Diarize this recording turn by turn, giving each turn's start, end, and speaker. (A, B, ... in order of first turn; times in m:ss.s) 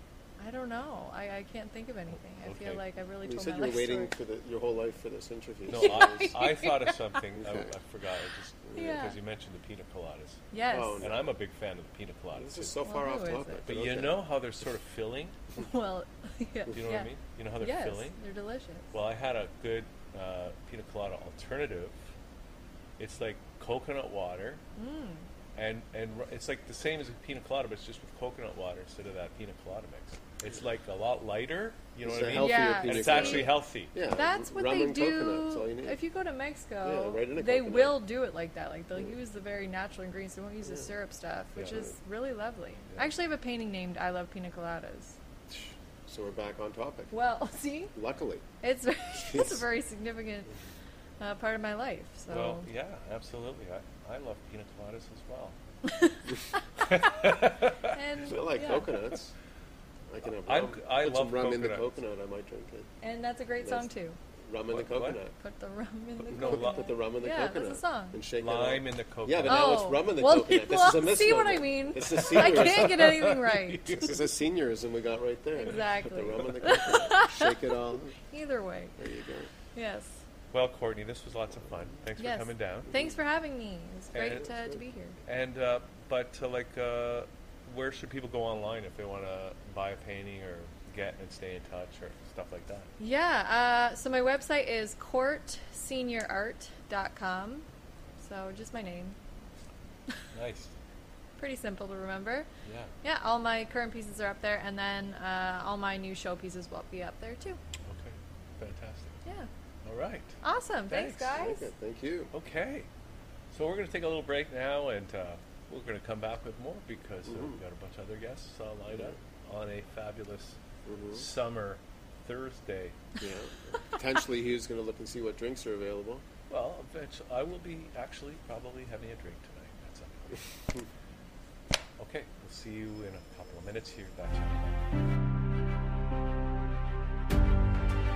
0:00.4-0:04.1 A
0:02.4-0:02.8 B
0:03.2-0:06.4 C
0:05.7-0:10.5 B
0:05.8-0:07.0 A
0:07.4-0:07.7 C
0:08.7-0:09.2 A
0:10.5-0:11.1 A
0:10.7-0:11.2 C
0:11.0-0:12.7 B
0:12.3-0:14.2 C
0:12.8-0:13.6 A
0:13.7-0:15.4 B
0:15.6-0:18.9 A
0:16.7-0:18.2 B
0:18.9-0:22.0 B
0:23.0-0:24.6 B
0:24.8-0:25.3 A
0:25.6-0:33.9 B
0:32.0-0:36.0 C
0:32.4-0:33.5 A
0:34.1-0:45.2 A
0:36.8-0:38.0 C
0:41.6-0:41.9 C
0:46.1-0:47.1 C
0:47.1-0:47.9 A
0:47.9-0:48.4 C
0:48.6-0:50.5 A
0:49.3-0:49.6 C
0:51.2-0:52.6 A
0:52.3-0:55.6 B
0:55.9-0:56.2 A
0:56.9-0:58.0 B
0:57.9-0:59.0 A
0:58.2-0:59.3 C
1:00.1-1:02.9 C
1:00.4-1:01.9 B
1:03.0-1:04.2 A
1:03.6-1:03.9 C
1:04.4-1:05.3 C
1:04.7-1:05.2 B
1:05.4-1:08.2 A
1:06.2-1:06.9 B
1:06.5-1:13.0 C
1:08.4-1:09.8 B
1:09.4-1:14.0 A
1:12.1-1:14.2 B
1:13.9-1:18.2 C
1:15.6-1:17.6 A
1:18.2-1:19.0 A
1:19.0-1:19.5 C
1:19.8-1:20.2 A
1:20.5-1:22.9 B
1:22.2-1:25.2 A
1:24.1-1:24.5 B
1:25.2-1:32.9 B
1:33.0-1:37.6 A
1:38.2-1:39.2 A
1:40.3-1:40.7 B
1:41.4-1:42.5 A
1:42.6-1:42.9 B
1:43.0-1:47.6 A
1:47.8-1:49.2 B
1:49.8-1:50.4 B
1:50.4-1:51.7 A
1:50.9-1:51.3 B
1:51.3-1:52.3 C
1:52.3-1:52.9 B
1:53.5-2:00.6 B
1:57.3-1:57.6 C
1:58.9-1:59.2 C
2:00.9-2:01.2 C
2:01.1-2:03.0 B
2:03.2-2:06.2 C
2:06.5-2:10.4 B
2:12.0-2:14.8 B